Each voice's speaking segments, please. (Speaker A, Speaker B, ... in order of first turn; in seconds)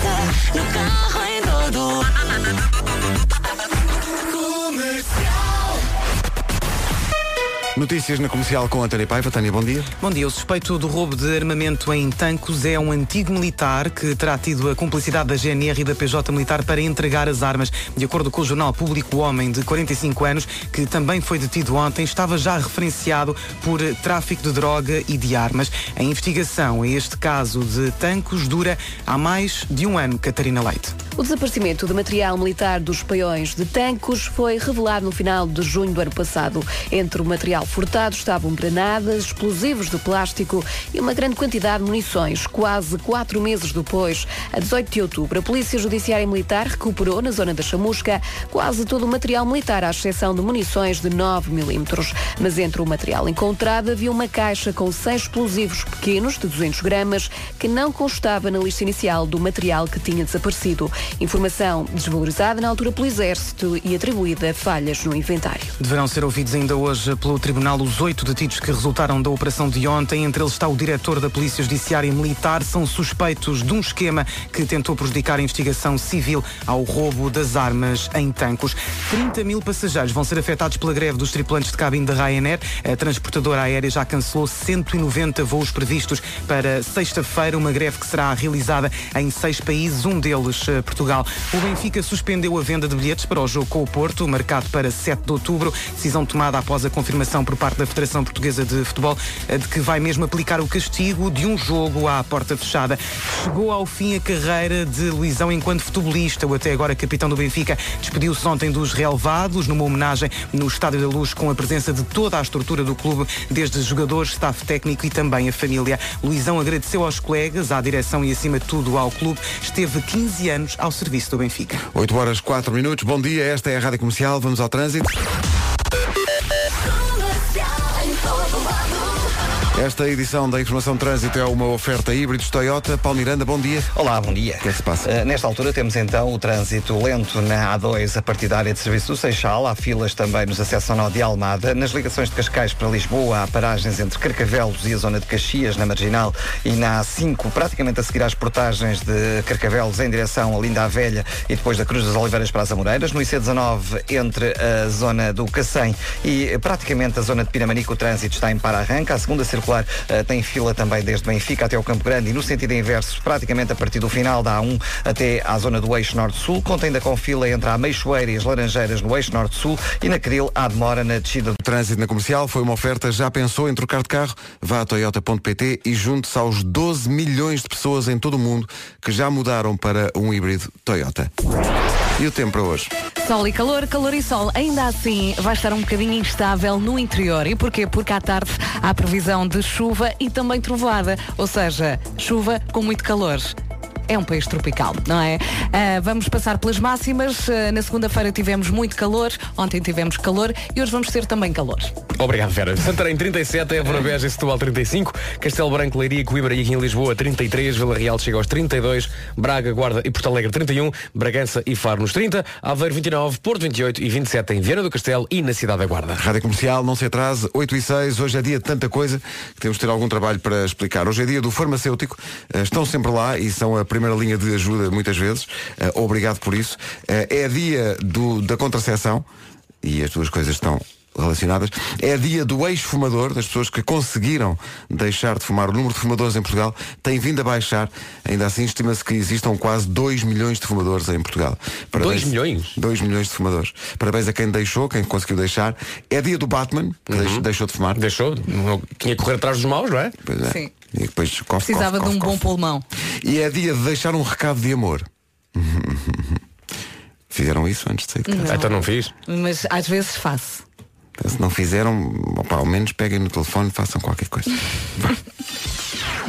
Speaker A: 7.7-9.9, 121.9-125.2, 129.7-133.9, 134.6-135.1, 171.6-181.3, 182.2-182.9, 216.2-229.2, 229.8-248.0, 250.2-252.5, 253.2-256.4, 257.3-258.6, 261.2-265.1
Speaker B: 10.0-30.9, 65.8-121.8
Speaker C: 31.2-65.7
Speaker D: 133.9-171.6
Speaker E: 183.2-193.5, 194.1-201.9, 250.4-250.7, 251.6-252.8, 258.3-260.6
Speaker F: 202.2-216.2, 241.9-242.8, 247.1-250.1, 258.4-259.1